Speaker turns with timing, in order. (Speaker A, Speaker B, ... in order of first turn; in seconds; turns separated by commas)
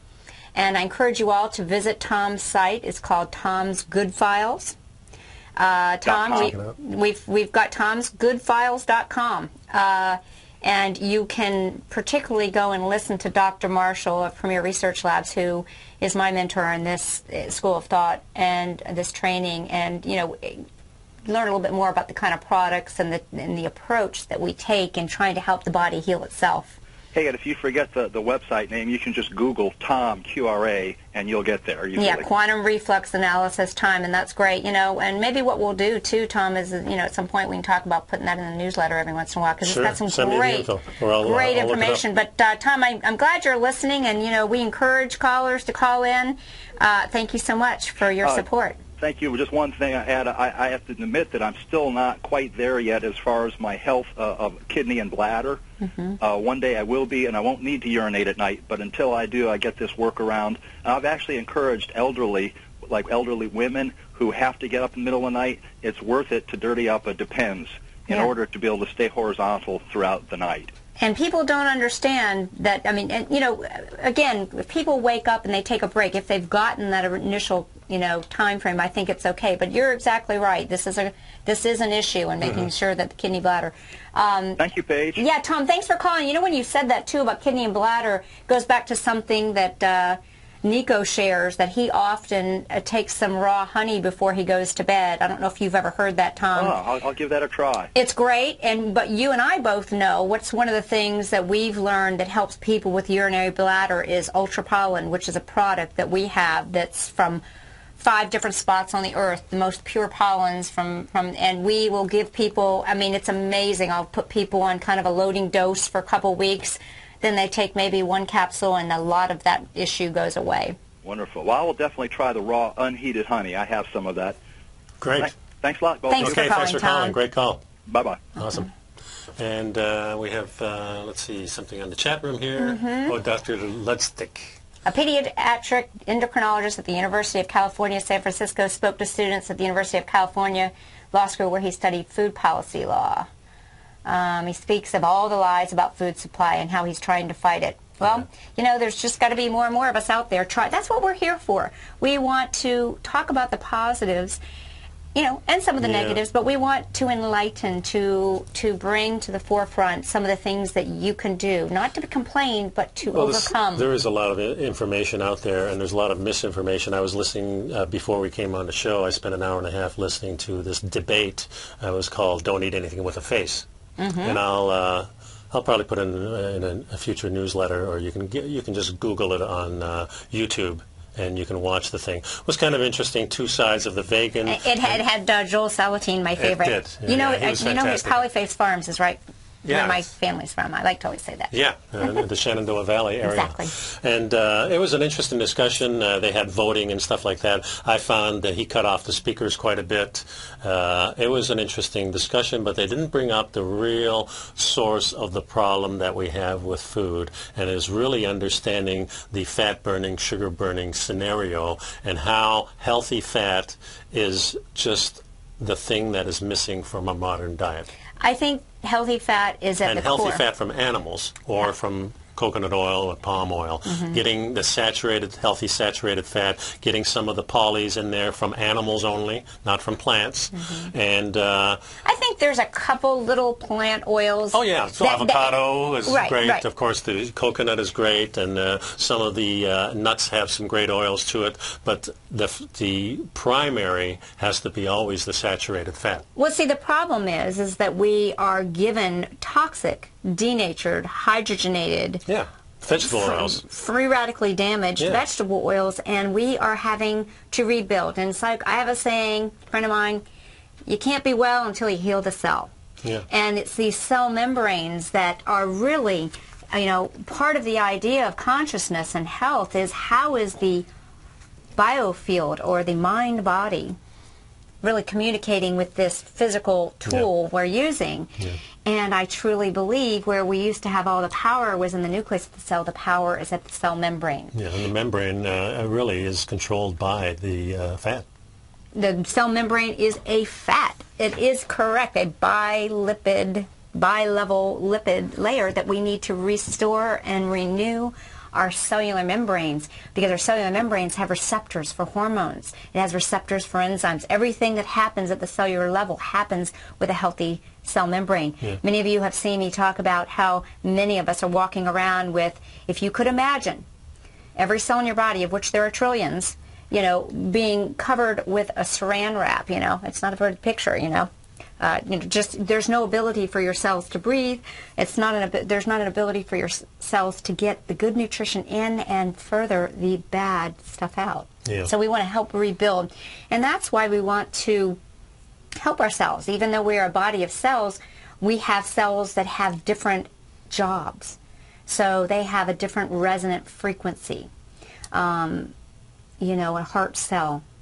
Speaker A: 0.5-4.8, Speaker A: 5.6-20.6, Speaker B: 6.1-6.5, Speaker C: 6.2-6.7, Speaker A: 21.2-26.8, Speaker B: 27.1-32.2, Speaker A: 31.9-40.7, Speaker C: 39.6-42.0, Speaker A: 41.2-48.8, Speaker B: 48.2-48.5, Speaker B: 49.0-55.6, Speaker B: 56.2-70.7, Speaker A: 71.0-84.6, Speaker C: 82.4-82.7, Speaker B: 84.6-85.2, Speaker A: 85.2-96.8, Speaker B: 96.5-97.9, Speaker A: 97.9-107.4, Speaker A: 108.0-120.8, Speaker B: 121.0-124.3, Speaker C: 125.0-125.3, Speaker B: 125.2-126.5, Speaker A: 126.1-127.2, Speaker C: 126.2-127.6, Speaker B: 127.8-128.3, Speaker C: 128.3-128.7, Speaker C: 129.4-134.6, Speaker A: 132.6-133.2, Speaker A: 134.8-143.3, Speaker A: 144.0-154.4, Speaker A: 155.1-163.9, Speaker C: 155.8-156.2, Speaker C: 163.1-173.7, Speaker A: 174.0-174.4, Speaker C: 174.2-185.0, Speaker A: 184.4-192.2, Speaker C: 186.4-188.2, Speaker C: 189.7-190.1, Speaker C: 191.5-217.9, Speaker A: 193.2-193.7, Speaker A: 218.2-220.4, Speaker C: 219.8-231.8, Speaker A: 223.8-224.2, Speaker A: 230.6-230.9, Speaker A: 232.0-236.6, Speaker C: 234.5-246.2, Speaker A: 246.3-252.2, Speaker C: 252.3-253.6, Speaker A: 253.0-260.2, Speaker A: 260.9-262.7, Speaker A: 263.3-270.9, Speaker A: 271.8-274.0, Speaker A: 274.8-278.3, Speaker A: 278.8-284.5, Speaker C: 284.5-288.3, Speaker A: 288.9-313.8, Speaker A: 314.6-335.0, Speaker C: 331.6-331.9, Speaker A: 335.8-344.5, Speaker A: 345.1-345.7, Speaker A: 346.4-347.6